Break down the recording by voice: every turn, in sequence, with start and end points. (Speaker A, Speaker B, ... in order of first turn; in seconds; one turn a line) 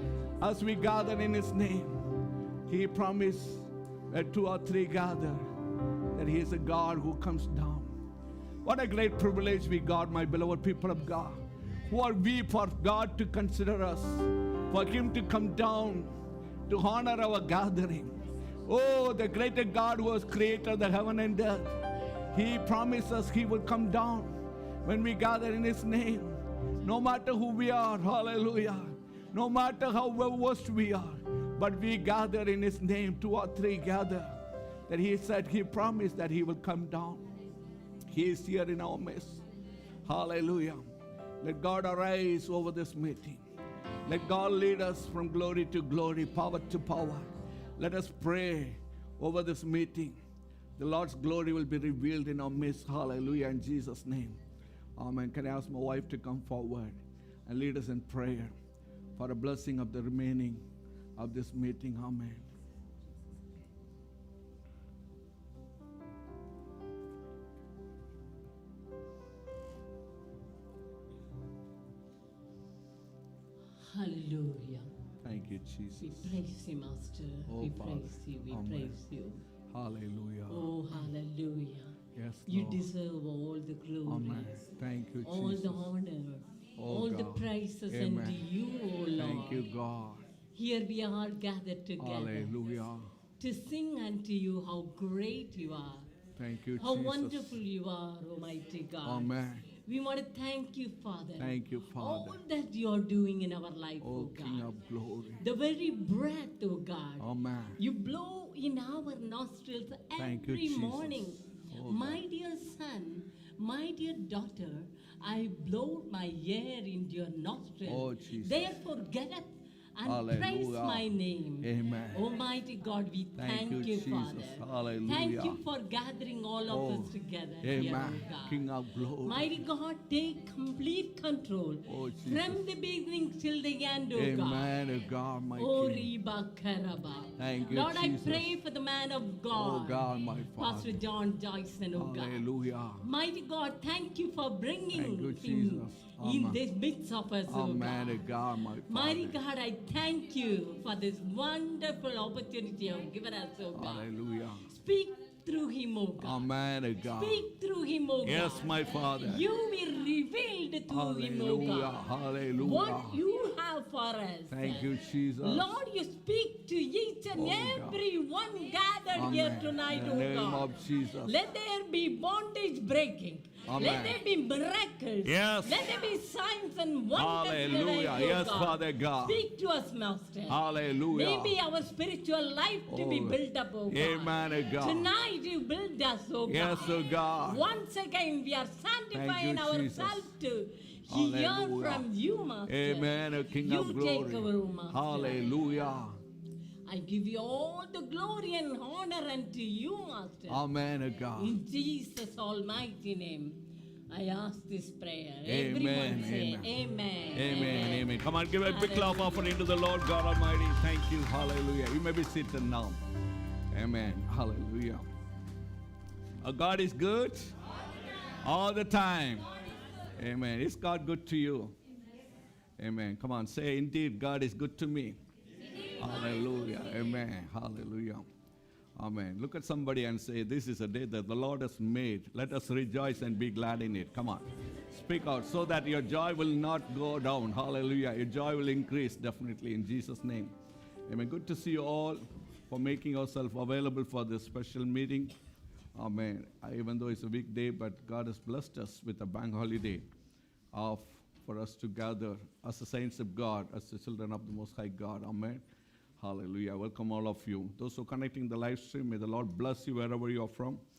Speaker A: 0.4-2.0
Speaker A: 2.7-5.4
Speaker A: 6.1-7.9
Speaker A: 8.6-16.1
Speaker A: 16.7-21.7
Speaker A: 22.3-24.3
Speaker A: 24.8-34.4
Speaker A: 34.9-37.2
Speaker A: 38.1-39.4
Speaker A: 40.1-40.8
Speaker A: 41.4-43.4
Speaker A: 44.0-50.2
Speaker A: 50.8-54.4
Speaker A: 55.0-58.5
Speaker A: 59.2-60.6
Speaker A: 61.2-62.5
Speaker B: 73.8-74.9
Speaker A: 75.2-76.3
Speaker B: 76.0-79.4
Speaker A: 77.5-79.0
Speaker A: 79.7-80.7
Speaker B: 80.5-82.0
Speaker A: 82.1-82.9
Speaker B: 82.5-84.6
Speaker A: 84.1-85.8
Speaker B: 85.2-89.7
Speaker A: 86.8-88.5
Speaker A: 89.2-90.2
Speaker B: 90.5-92.6
Speaker A: 92.0-93.1
Speaker B: 93.4-96.1
Speaker A: 96.4-97.6
Speaker B: 96.8-104.7
Speaker A: 99.0-99.7
Speaker A: 101.4-102.4
Speaker A: 104.0-105.4
Speaker B: 105.4-107.2
Speaker A: 107.2-107.8
Speaker B: 107.8-128.6
Speaker A: 110.2-112.2
Speaker A: 117.8-118.7
Speaker A: 120.0-121.1
Speaker A: 121.6-122.2
Speaker A: 123.4-125.6
Speaker A: 126.7-127.1
Speaker A: 127.6-129.6
Speaker B: 129.2-134.8
Speaker A: 131.9-132.6
Speaker A: 134.2-136.1
Speaker B: 135.6-142.5
Speaker A: 137.4-138.5
Speaker A: 139.5-141.0
Speaker A: 141.9-143.1
Speaker B: 143.0-148.3
Speaker A: 144.9-146.6
Speaker A: 147.5-149.4
Speaker B: 148.9-154.1
Speaker A: 153.7-154.7
Speaker B: 154.7-156.5
Speaker A: 156.2-157.4
Speaker B: 157.1-162.1
Speaker A: 158.2-159.5
Speaker A: 160.9-163.2
Speaker B: 162.6-195.8
Speaker A: 164.5-165.7
Speaker A: 167.3-168.0
Speaker A: 169.1-171.3
Speaker A: 173.7-174.2
Speaker A: 175.2-175.9
Speaker A: 177.2-179.4
Speaker A: 180.5-181.6
Speaker A: 182.9-185.1
Speaker A: 186.5-187.6
Speaker A: 189.1-190.3
Speaker A: 191.1-192.1
Speaker A: 192.7-196.2
Speaker B: 196.8-200.7
Speaker A: 200.5-201.6
Speaker B: 201.3-209.7
Speaker A: 205.5-206.7
Speaker A: 207.3-213.0
Speaker A: 213.7-215.1
Speaker A: 216.4-217.5
Speaker A: 218.4-219.5
Speaker A: 220.2-221.8
Speaker A: 222.8-225.2
Speaker A: 226.0-228.3
Speaker A: 229.0-240.5
Speaker A: 241.1-245.3
Speaker A: 245.9-250.1
Speaker A: 250.7-255.6
Speaker A: 256.2-260.8